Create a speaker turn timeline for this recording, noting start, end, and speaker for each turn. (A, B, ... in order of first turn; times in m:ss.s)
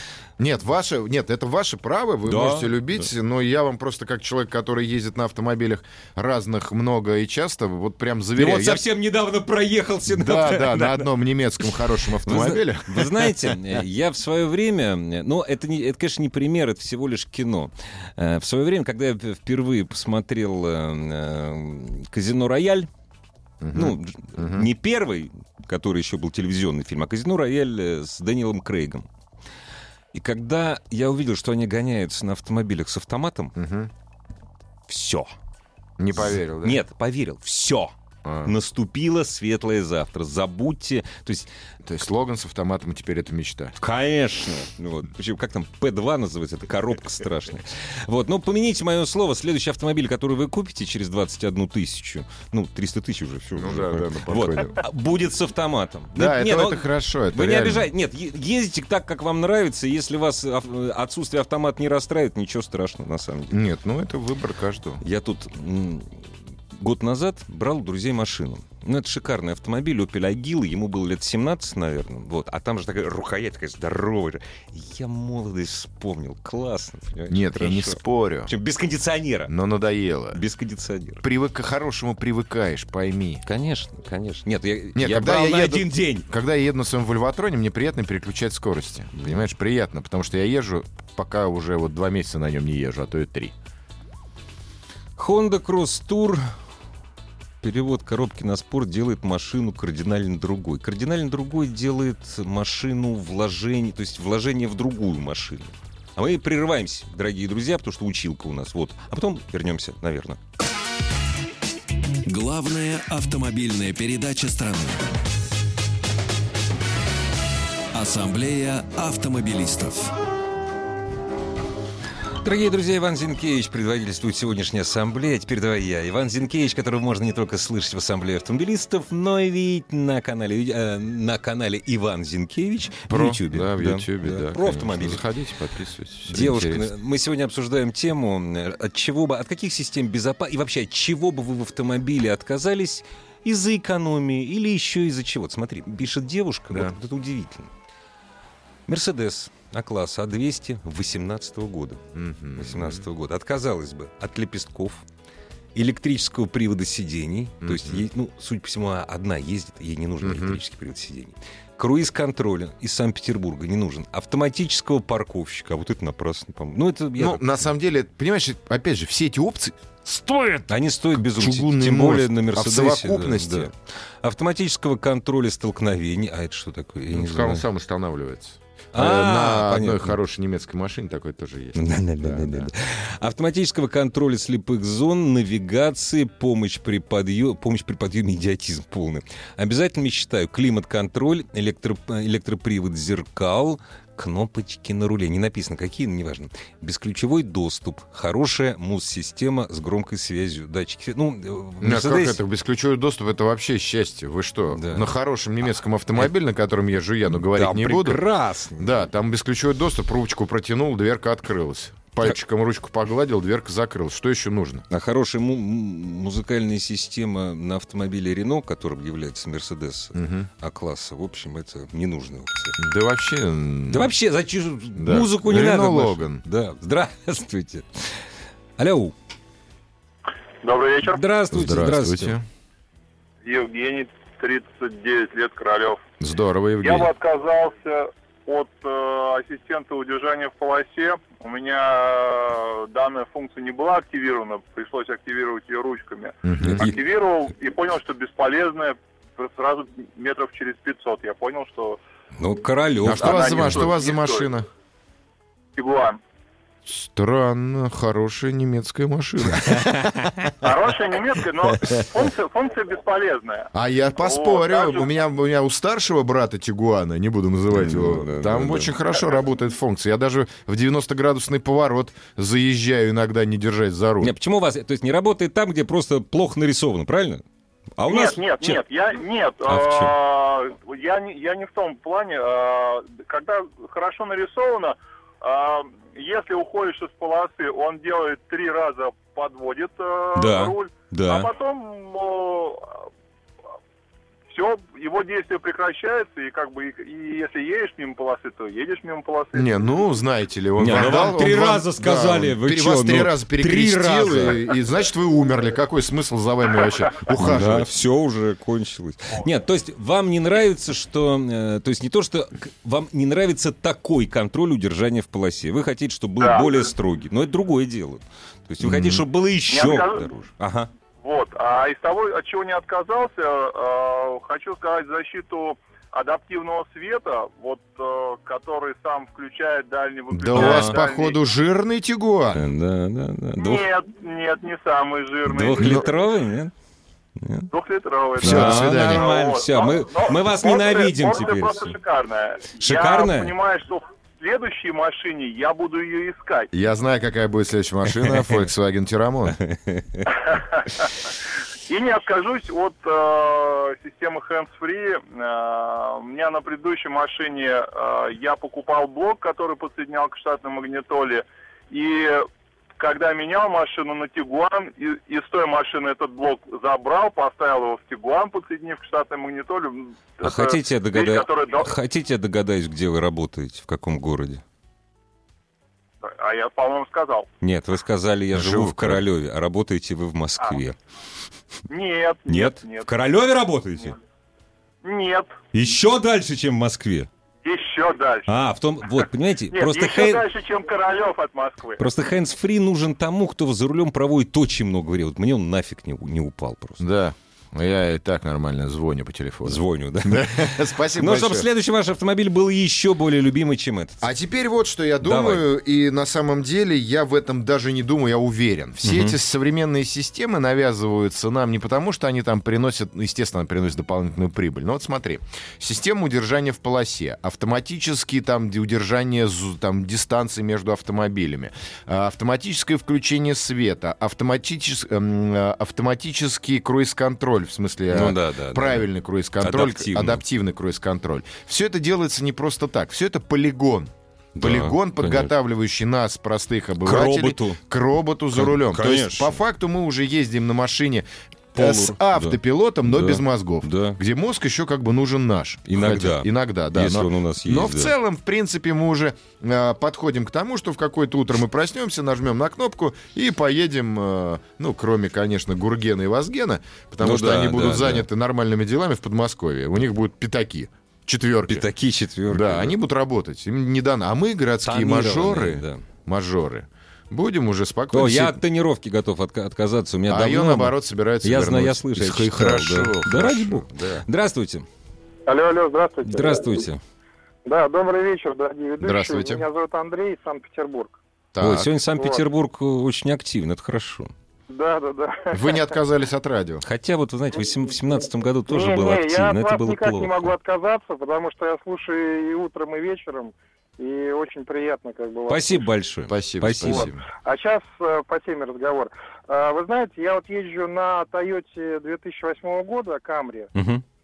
0:00.4-0:08.8 A
0:02.3-0:02.8 B
0:08.4-0:11.1 B
0:10.1-0:13.6 A
0:12.2-0:22.9 B
0:23.6-0:24.7 A
0:23.7-0:29.0 B
0:30.1-0:33.6 B
0:33.6-0:33.9 A
0:34.9-0:35.3 B
0:36.0-0:36.8 A
0:36.2-0:37.9 B
0:38.2-0:38.5 A
0:38.4-0:41.5 B
0:41.8-0:43.8 A
0:43.8-1:03.6 B
0:53.6-0:54.8 A
0:56.2-0:57.9 A
1:03.5-1:05.0 A
1:05.0-1:06.2 B
1:06.7-1:19.5 B
1:17.3-1:18.5 A
1:19.5-1:20.4 A
1:20.3-1:21.2 B
1:21.2-1:23.4 A
1:23.5-1:26.3 B
1:25.0-1:33.5 A
1:35.2-1:36.4 B
1:37.6-1:50.4 B
1:52.2-1:55.1 C
1:57.9-2:00.1 C
2:02.4-2:15.2 B
2:13.1-2:16.9 A
2:16.3-2:27.7 B
2:26.7-2:27.0 A
2:28.9-2:32.0 B
2:32.2-2:33.1 A
2:32.6-2:35.0 B
2:35.8-2:47.6 B
2:37.6-2:38.0 A
2:40.2-2:40.6 A
2:47.2-2:50.7 A
2:50.7-2:57.6 B
2:51.3-2:53.7 A
2:57.1-3:02.7 A
2:58.9-3:00.2 B
3:01.8-3:22.4 B
3:21.8-3:28.2 A
3:24.7-3:25.1 B
3:27.3-3:29.1 B
3:28.8-3:34.8 A
3:34.9-3:42.8 B
3:40.2-3:40.5 A
3:42.8-3:44.1 A
3:43.9-3:48.2 B
3:45.0-3:46.4 A
3:48.8-3:49.1 B
3:50.6-3:51.2 D
3:51.1-3:52.4 B
3:51.5-3:52.4 A
3:53.4-3:56.0 D
3:56.2-3:57.1 A
3:56.8-4:12.0 D
4:06.4-4:06.9 A
4:12.4-4:13.9 B
4:13.0-4:14.7 A
4:13.1-4:14.5 D
4:15.8-4:16.2 D
4:16.9-4:20.1 A
4:19.6-4:20.4 B
4:20.6-4:25.1 D
4:23.7-4:34.3 A
4:27.7-4:28.9 B
4:34.2-4:37.4 B
4:38.0-4:38.8 B
4:38.1-4:53.1 D
4:39.7-4:40.1 B
4:50.4-4:51.5 B
4:54.5-5:00.0 D
4:59.5-5:07.9 A
5:00.8-5:04.6 B
5:07.3-5:20.9 B
5:16.4-5:16.8 D
5:18.8-5:19.2 A
5:19.7-5:20.3 D
5:21.2-5:31.4 D
5:30.3-5:32.6 A
5:30.5-5:31.0 B
5:32.5-5:33.9 B
5:33.6-5:36.3 D
5:35.5-5:36.7 B
5:35.8-5:36.1 A
5:37.4-5:37.7 B
5:37.7-5:46.7 D
5:38.4-5:41.9 B
5:38.4-5:39.3 A
5:42.8-5:43.5 B
5:46.7-5:49.6 A
5:48.2-5:48.6 B
5:49.6-5:50.3 B
5:51.9-6:02.5 D
6:03.0-6:11.9 D
6:10.4-6:14.6 B
6:16.2-6:17.5 D
6:17.6-6:21.0 B
6:18.5-6:19.2 A
6:21.9-6:23.1 D
6:22.5-6:24.2 B
6:25.0-6:25.6 D
6:25.7-6:27.3 B
6:27.6-6:28.5 D
6:28.5-6:30.5 B
6:29.7-6:32.0 D
6:32.0-6:37.0 B
6:37.0-6:41.7 A
6:39.6-6:44.3 B
6:44.2-7:41.9 A
6:45.2-6:45.7 B
6:49.0-6:49.4 B
7:08.1-7:09.1 B
7:09.6-7:10.4 B
7:14.6-7:15.5 B
7:17.0-7:17.8 B
7:18.5-7:19.6 B
7:21.8-7:24.2 B
7:25.9-7:28.1 B
7:37.2-7:38.3 B
7:41.7-7:43.0 B
7:42.5-7:48.6 A
7:44.8-7:46.0 B
7:48.1-7:54.9 B
7:50.3-7:54.2 A
7:55.5-7:56.8 E
7:56.2-7:57.0 B
7:57.6-8:01.2 E
7:59.0-7:59.6 A
8:01.5-8:01.9 A
8:01.6-8:04.3 B
8:02.2-8:02.4 E
8:04.7-8:05.9 E
8:05.5-8:06.8 A
8:06.8-8:10.5 B
8:08.7-8:15.9 E
8:15.5-8:17.1 B
8:16.3-8:17.2 A
8:16.8-8:23.7 E
8:23.7-8:24.0 B